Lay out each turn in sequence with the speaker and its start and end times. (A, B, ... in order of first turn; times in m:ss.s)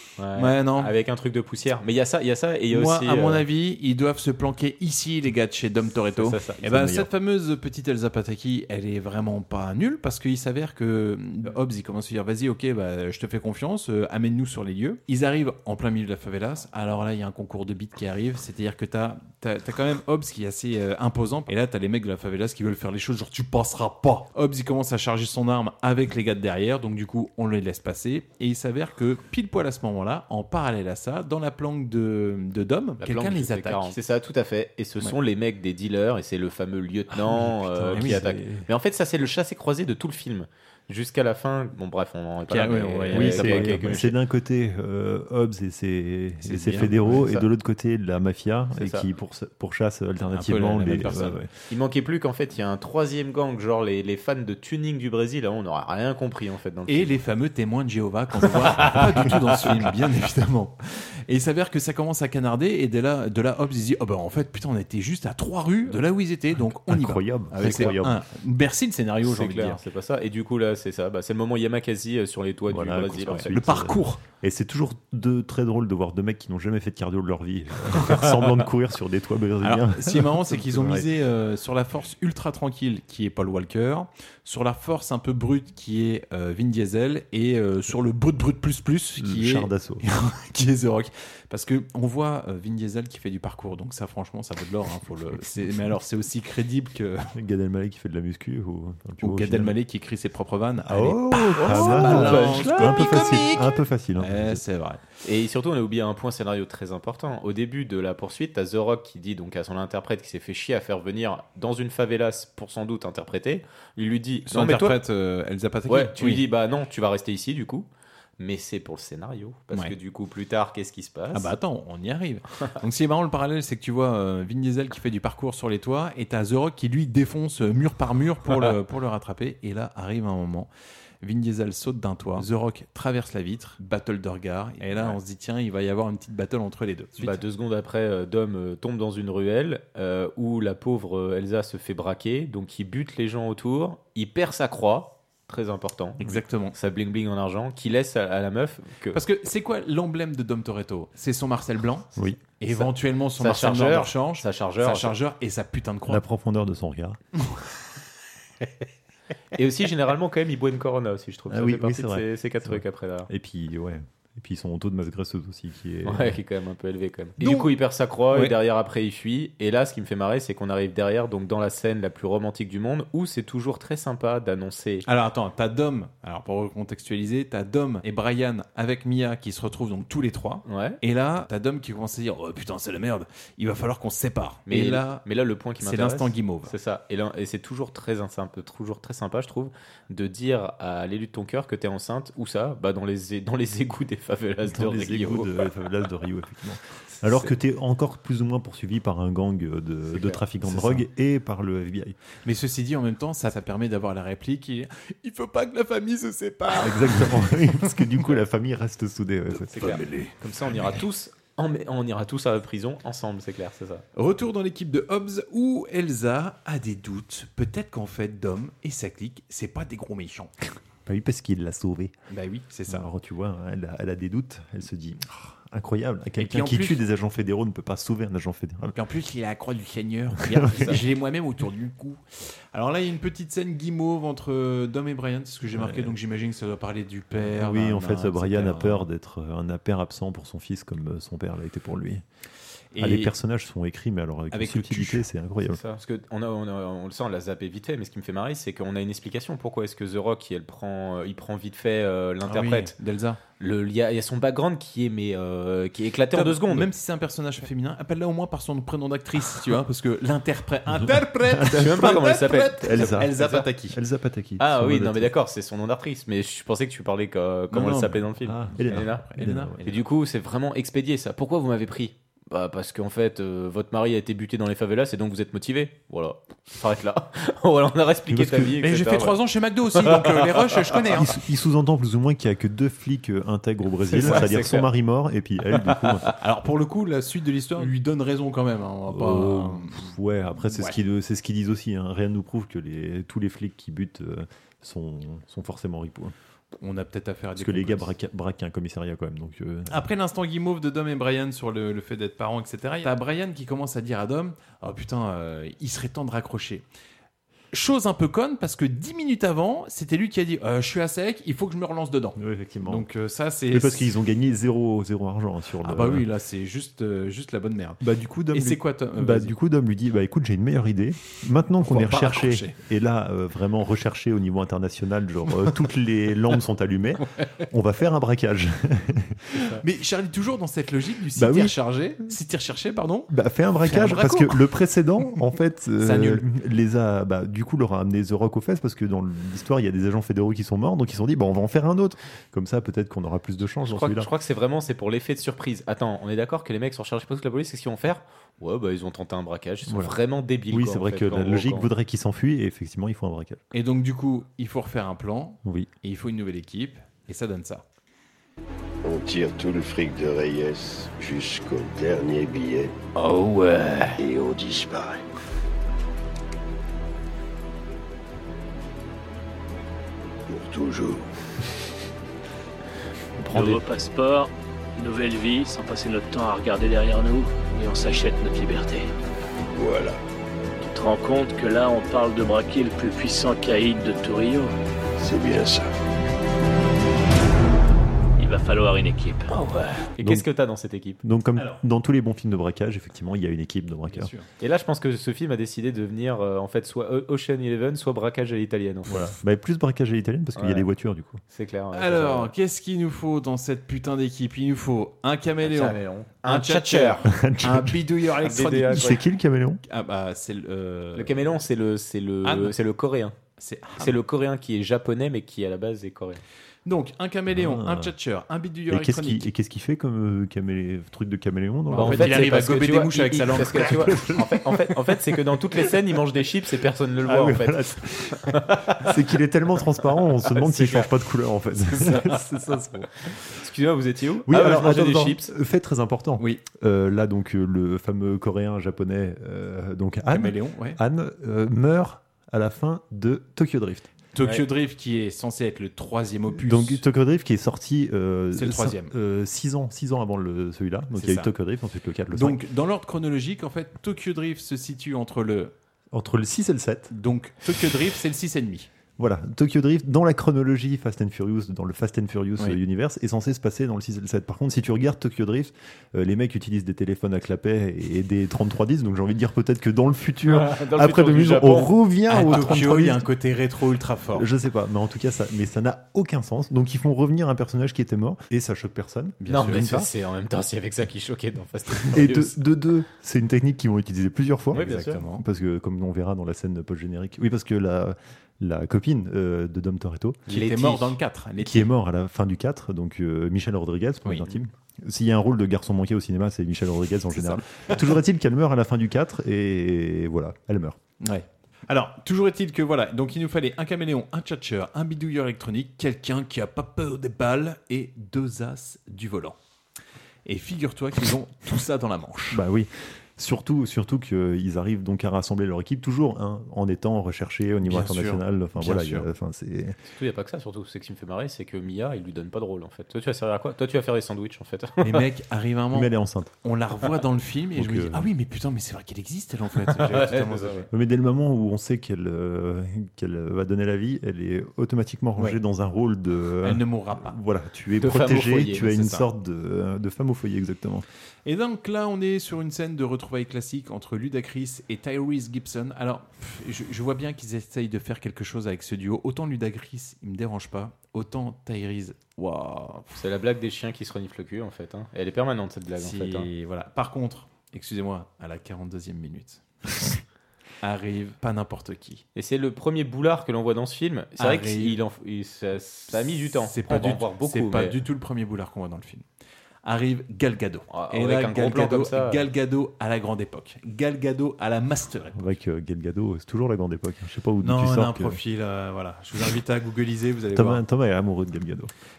0:00.2-0:03.4 A
0:00.4-0:00.9 B
0:02.7-0:34.0 B
0:06.2-0:06.6 A
0:06.6-0:07.1 C
0:33.0-0:44.1 A
0:37.2-0:38.3 B
0:37.6-0:38.6 C
0:42.5-0:44.0 B
0:43.1-0:51.5 C
0:46.4-0:47.2 B
0:48.8-0:49.0 A
0:50.3-0:51.4 B
0:51.7-0:57.2 A
0:56.9-1:09.8 B
1:06.8-1:08.2 C
1:07.6-1:07.9 A
1:09.2-1:13.5 A
1:12.7-1:21.1 C
1:13.3-1:14.2 B
1:19.6-1:37.3 B
1:29.2-1:30.0 C
1:37.3-1:39.7 C
1:39.2-1:45.0 B
1:40.8-1:44.6 C
1:41.6-1:43.5 A
1:45.2-1:55.0 A
1:54.5-1:56.4 B
1:55.9-1:57.9 A
1:58.4-2:01.5 A
2:01.3-2:10.7 B
2:11.2-2:17.4 B
2:14.8-2:15.2 A
2:17.2-2:29.2 A
2:26.2-2:26.8 B
2:29.1-2:36.2 B
2:32.2-2:32.4 C
2:32.7-2:35.2 A
2:36.1-2:37.2 C
2:39.5-2:43.3 A
2:41.5-2:46.4 C
2:46.0-2:55.0 A
2:47.4-2:47.8 B
2:48.3-2:48.6 B
2:55.0-3:05.2 B
3:00.6-3:01.0 A
3:04.7-3:15.7 A
3:05.8-3:06.7 B
3:14.6-3:22.2 C
3:17.2-3:17.5 A
3:20.6-3:21.0 B
3:22.4-3:28.1 B
3:26.7-3:30.0 C
3:29.7-3:34.0 A
3:29.8-3:30.3 B
3:34.1-3:40.5 B
3:41.0-3:42.1 C
3:42.3-3:43.1 B
3:42.9-3:49.0 C
3:46.4-3:47.0 B
3:48.9-3:59.0 B
3:50.4-3:51.0 C
3:55.7-3:56.1 C
3:57.5-4:02.2 C
4:02.9-4:03.3 B
4:03.0-4:05.8 C
4:04.5-4:05.2 B
4:05.6-4:12.9 A
4:12.4-4:13.4 B
4:13.6-4:16.9 A
4:16.3-4:24.0 B
4:20.9-4:22.2 C
4:21.7-4:23.7 A
4:22.8-4:25.3 C
4:24.6-4:29.2 A
4:27.7-4:28.3 B
4:28.4-4:29.8 C
4:29.3-4:30.0 B
4:29.8-4:39.4 A
4:38.3-4:38.8 C
4:38.8-4:41.3 B
4:40.0-4:41.0 A
4:41.1-4:46.3 C
4:44.1-4:44.9 A
4:44.2-4:44.5 B
4:46.4-4:50.1 B
4:49.1-4:56.3 C
4:50.7-4:51.0 B
4:56.8-4:58.1 B
4:57.6-5:00.0 C
4:59.9-5:06.8 B
5:07.7-5:14.1 B
5:12.4-5:13.1 C
5:13.7-5:16.3 C
5:15.8-5:19.6 B
5:18.0-5:29.7 C
5:21.8-5:22.8 B
5:29.7-5:33.3 B
5:31.4-5:31.8 C
5:33.3-5:44.3 C
5:33.8-5:34.6 B
5:36.0-5:36.4 B
5:43.8-5:51.9 A
5:49.8-5:50.2 C
5:50.7-5:53.6 C
5:53.7-5:57.8 B
5:59.0-6:02.9 D
6:03.2-6:04.2 A
6:04.2-6:05.2 D
6:10.5-6:11.3 D
6:13.4-6:13.8 A
6:13.5-6:19.1 E
6:19.7-6:20.2 D
6:20.8-6:24.7 E
6:25.2-6:25.9 D
6:28.4-6:30.0 E
6:30.1-6:31.2 A
6:30.2-6:30.4 C
6:31.2-6:34.3 C
6:34.1-6:34.5 B
6:34.6-6:39.2 A
6:39.1-6:41.4 C
6:40.6-6:40.8 A
6:41.5-6:42.5 A
6:41.9-6:49.2 B
6:45.6-6:47.2 A
6:47.2-6:48.0 C
6:48.4-6:49.2 A
6:48.8-6:49.8 C
6:49.9-6:51.5 B
6:51.2-6:53.3 A
6:52.4-6:52.8 B
6:53.6-6:54.2 B
6:54.0-6:56.4 A
6:56.8-6:59.5 B
6:57.5-6:58.1 C
6:58.9-7:02.6 C
7:01.9-7:04.4 B
7:01.9-7:09.1 A
7:03.7-7:04.6 C
7:07.2-7:13.1 C
7:10.5-7:11.1 A
7:12.0-7:12.4 A
7:13.4-7:15.5 A
7:14.4-7:24.1 C
7:20.3-7:21.0 B
7:24.3-7:27.0 B
7:26.5-7:32.6 C
7:28.5-7:29.1 B
7:31.1-7:31.5 B
7:32.3-7:35.7 B
7:36.1-7:37.1 C
7:37.1-7:38.9 B
7:39.2-7:53.3 C
7:50.5-7:51.9 A
7:52.3-7:54.5 B
7:54.3-8:00.1 C
7:59.4-8:00.0 B
7:59.5-8:02.5 A
8:02.1-8:10.4 C
8:04.7-8:05.2 A
8:04.7-8:05.4 B
8:10.5-8:11.2 A
8:10.5-8:11.9 B
8:11.6-8:21.0 C
8:14.2-8:14.5 B
8:17.4-8:18.0 B
8:21.2-8:29.6 B
8:30.4-8:32.6 B
8:32.5-8:40.0 C
8:37.8-8:39.3 B
8:40.0-8:45.2 A
8:45.0-8:46.1 B
8:45.9-8:46.5 C
8:46.6-8:50.9 B
8:47.8-8:48.3 C
8:49.9-8:50.9 A
8:50.9-9:01.0 C
8:56.6-8:57.4 B
8:58.0-8:59.0 A
8:58.8-8:59.2 B
9:01.4-9:13.2 B
9:13.1-9:16.5 A
9:16.0-9:20.1 B
9:20.8-9:22.2 B
9:22.3-9:28.0 A
9:24.4-9:25.0 B
9:26.5-9:29.2 B
9:29.8-9:35.5 B
9:30.9-9:32.4 A
9:35.3-9:38.4 C
9:37.6-9:40.8 B
9:40.5-9:41.9 C